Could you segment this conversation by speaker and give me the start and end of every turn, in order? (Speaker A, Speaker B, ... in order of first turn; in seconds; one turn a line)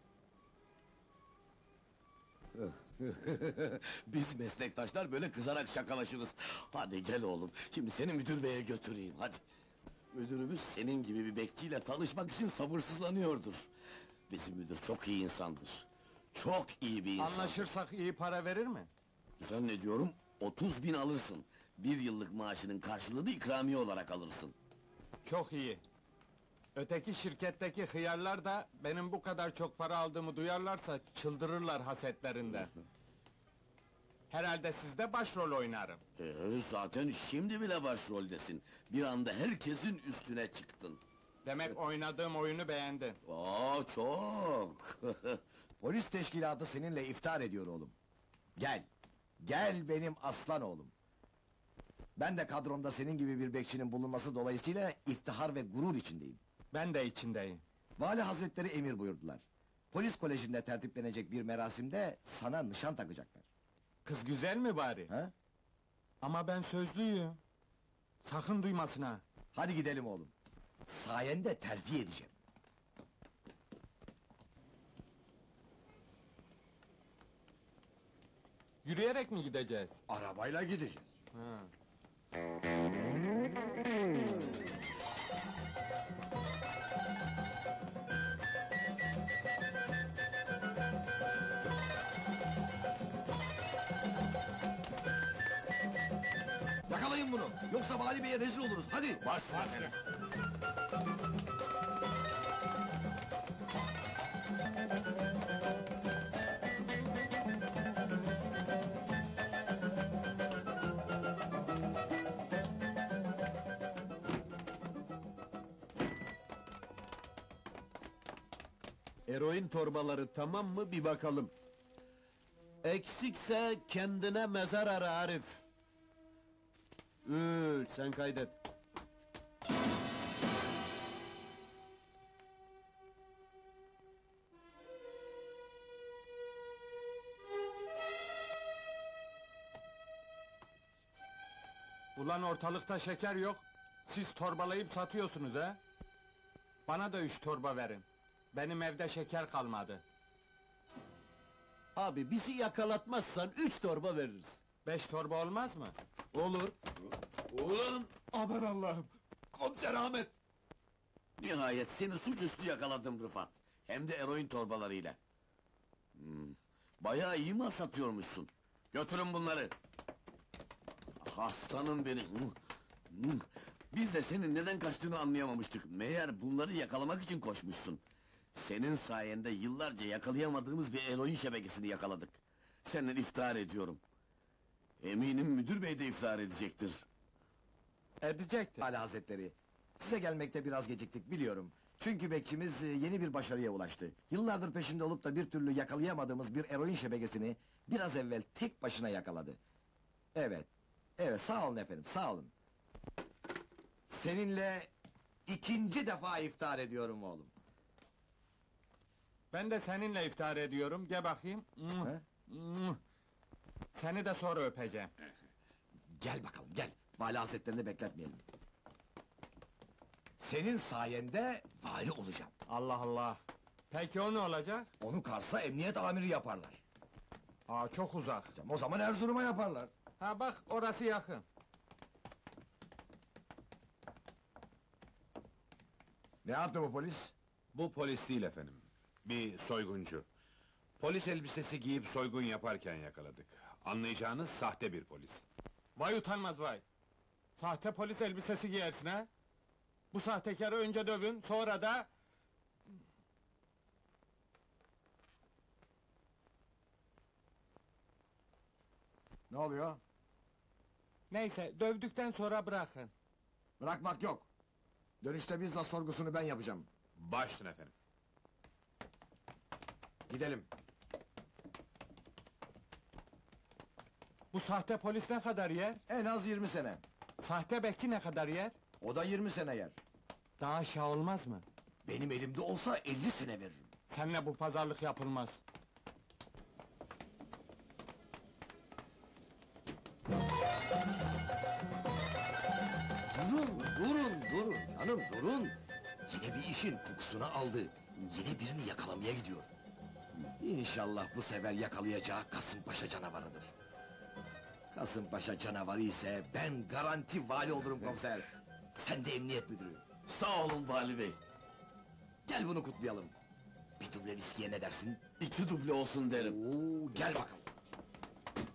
Speaker A: 2.6-9.4
Speaker A: 10.1-13.7
Speaker A: 14.3-17.7
Speaker B: 17.2-18.9
Speaker A: 19.4-24.5
Speaker B: 25.2-25.8
Speaker B: 26.7-32.7
Speaker B: 34.3-36.0
Speaker A: 36.2-41.0
Speaker B: 41.4-43.2
Speaker A: 43.2-45.4
Speaker C: 45.8-47.9
Speaker C: 48.6-48.9
Speaker C: 49.4-50.9
Speaker C: 52.2-56.4
Speaker B: 56.7-57.6
Speaker C: 58.0-63.4
Speaker B: 64.0-65.1
Speaker B: 66.2-67.4
Speaker B: 68.2-69.2
Speaker C: 69.5-70.3
Speaker C: 70.8-72.3
Speaker B: 78.8-79.9
Speaker C: 80.1-81.1
Speaker B: 81.3-81.7
Speaker C: 96.9-99.2
Speaker A: 99.2-99.9
Speaker B: 99.5-99.9
Speaker D: 119.3-121.5
Speaker D: 122.8-125.6
Speaker D: 127.2-128.6
Speaker B: 142.2-145.8
Speaker B: 146.9-150.0
Speaker D: 151.9-154.6
Speaker B: 154.8-155.9
Speaker D: 156.3-156.7
Speaker A: 157.5-158.1
Speaker D: 158.3-160.3
Speaker A: 161.4-165.2
Speaker A: 166.2-169.7
Speaker A: 171.2-172.6
Speaker A: 173.1-178.0
Speaker A: 178.5-184.0
Speaker A: 185.0-187.0
Speaker B: 188.2-188.9
Speaker C: 188.8-199.6
Speaker C: 200.3-202.5
Speaker C: 204.1-204.9
Speaker C: 205.5-207.5
Speaker B: 209.5-213.0
Speaker B: 213.9-215.1
Speaker C: 216.2-218.4
Speaker C: 220.4-222.5
Speaker B: 222.7-223.4
Speaker B: 223.9-224.9
Speaker C: 225.0-226.8
Speaker B: 227.7-228.5
Speaker C: 228.5-229.9
Speaker B: 230.2-231.4
Speaker C: 236.4-237.3
Speaker E: 237.7-240.2
Speaker E: 241.0-245.4
Speaker B: 246.0-246.8
Speaker B: 247.6-249.3
Speaker B: 250.1-252.1
Speaker C: 259.5-260.0
Speaker B: 261.3-263.1
Speaker C: 263.8-264.5
Speaker C: 265.2-266.9
Speaker E: 267.2-267.9
Speaker C: 270.3-270.7
Speaker B: 274.5-276.0
Speaker C: 276.1-277.0
Speaker B: 277.4-278.7
Speaker C: 279.0-279.9
Speaker B: 280.6-281.6
Speaker C: 282.0-283.9
Speaker B: 284.1-285.6
Speaker C: 293.4-295.8
Speaker C: 296.3-299.7
Speaker C: 300.6-303.7
Speaker C: 304.9-310.0
Speaker A: 310.3-311.4
Speaker C: 312.4-313.3
Speaker C: 314.0-315.2
Speaker A: 315.4-316.6
Speaker C: 316.3-317.6